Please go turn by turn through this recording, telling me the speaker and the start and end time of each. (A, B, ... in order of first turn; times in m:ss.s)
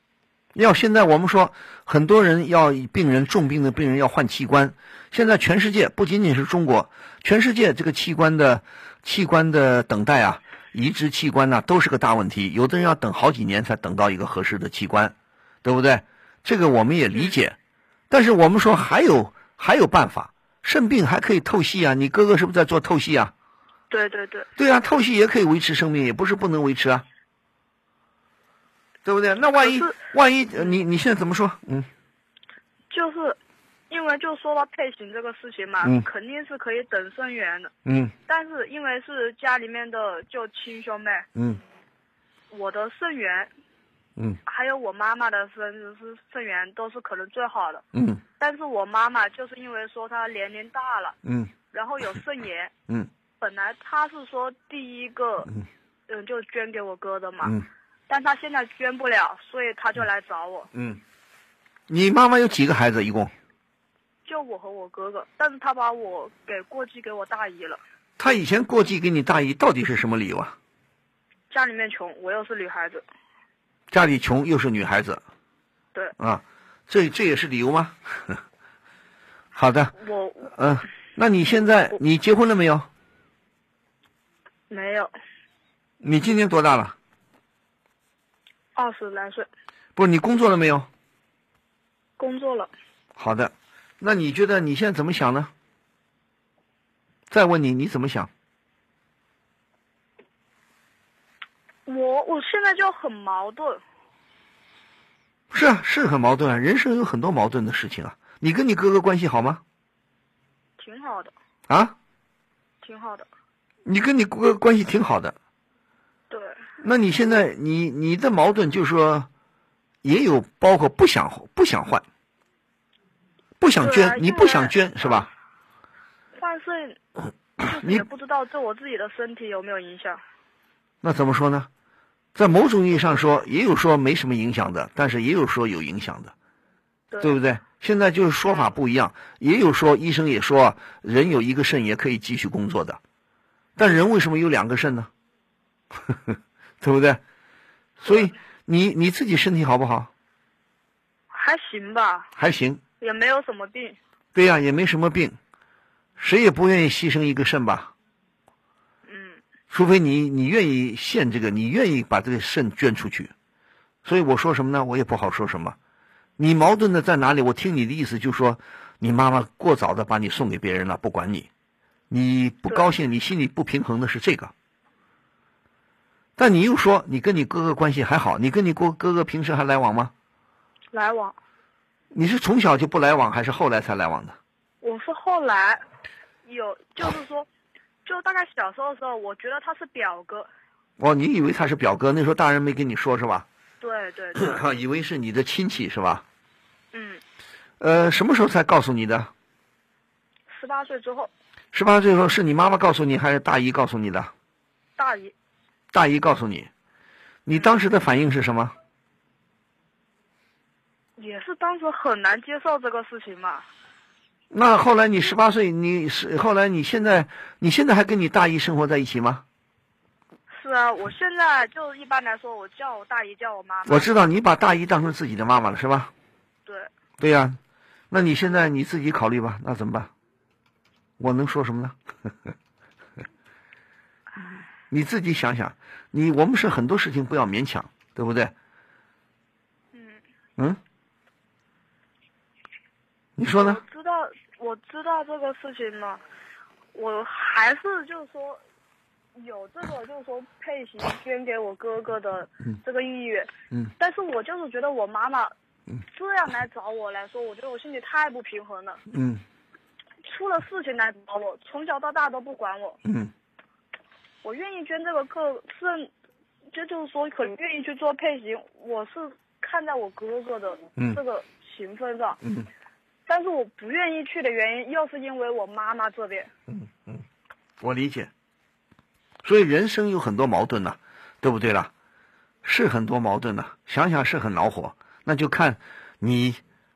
0:00.6-0:17.6 A
0:18.1-0:23.3 A
0:23.9-0:24.5 B
0:24.6-0:27.1 A
0:29.0-0:31.9 A
0:29.6-0:30.0 B
0:32.9-0:33.4 B
0:33.9-0:37.7 B
0:37.8-0:38.1 A
0:38.3-0:41.3 B
0:41.4-0:41.6 A
0:42.5-0:43.5 B
0:44.5-0:47.8 B
0:47.9-0:48.2 A
0:48.4-0:51.2 B
0:51.2-0:51.5 A
0:51.7-0:52.7 B
0:53.4-0:55.5 B
0:56.1-0:57.6 B
0:58.1-1:00.7 B
1:00.7-1:01.0 A
1:01.9-1:03.3 A
1:04.3-1:07.8 B
1:08.2-1:10.6 A
1:11.5-1:13.0 B
1:13.9-1:15.2 A
1:16.2-1:18.4 A
1:19.6-1:20.0 A
1:20.0-1:20.5 B
1:20.5-1:22.9 A
1:24.7-1:25.1 B
1:26.0-1:27.0 A
1:28.8-1:29.5 B
1:30.0-1:30.9 A
1:32.2-1:32.7 B
1:33.2-1:35.5 A
1:37.3-1:38.3 A
1:41.9-1:43.8 B
1:45.5-1:49.6 A
1:50.8-1:51.3 B
1:51.7-1:52.0 A
1:52.8-1:53.3 B
1:53.8-1:55.4 A
1:56.3-1:56.6 B
1:56.8-1:59.3 A
2:00.0-2:02.0 A
2:03.6-2:05.3 A
2:03.8-2:05.3 B
2:06.4-2:07.0 B
2:07.6-2:10.2 B
2:11.0-2:11.7 A
2:12.4-2:16.3 A
2:17.1-2:17.4 B
2:17.2-2:23.0 A
2:23.8-2:25.1 A
2:26.1-2:27.2 A
2:28.0-2:30.1 A
2:31.3-2:32.3 B
2:32.4-2:32.8 A
2:33.0-2:34.0 B
2:34.4-2:35.4 A
2:36.2-2:37.9 A
2:39.1-2:39.4 B
2:39.7-2:43.3 A
2:44.0-2:45.8 A
2:46.4-2:51.5 A
2:52.1-2:54.5 A
2:56.4-3:00.1 A
3:00.9-3:01.4 B
3:02.1-3:04.4 A
3:04.8-3:05.8 B
3:06.4-3:07.5 B
3:08.0-3:10.5 B
3:11.0-3:13.5 A
3:13.8-3:14.6 B
3:14.4-3:16.2 A
3:16.9-3:17.2 B
3:17.8-3:19.3 A
3:20.5-3:21.3 B
3:21.7-3:24.3 A
3:25.0-3:25.3 B
3:25.9-3:26.7 A
3:27.5-3:28.7 A
3:31.2-3:33.6 B
3:34.5-3:39.4 A
3:40.5-3:44.1 B
3:43.9-3:46.1 A
3:47.2-3:47.6 A
3:48.1-3:50.1 A
3:51.2-3:52.0 A
3:54.9-3:58.5 A
3:59.9-4:00.2 B
4:03.4-4:03.8 A
4:03.6-4:06.2 B
4:06.9-4:08.6 B
4:09.4-4:15.5 B
4:16.1-4:19.0 B
4:19.1-4:19.4 A
4:20.2-4:23.0 B
4:23.0-4:23.3 A
4:24.4-4:26.1 B
4:26.7-4:32.4 B
4:32.4-4:32.7 A
4:33.3-4:36.5 B
4:36.7-4:37.2 A
4:37.8-4:38.3 A
4:39.4-4:41.9 A
4:42.6-4:46.6 A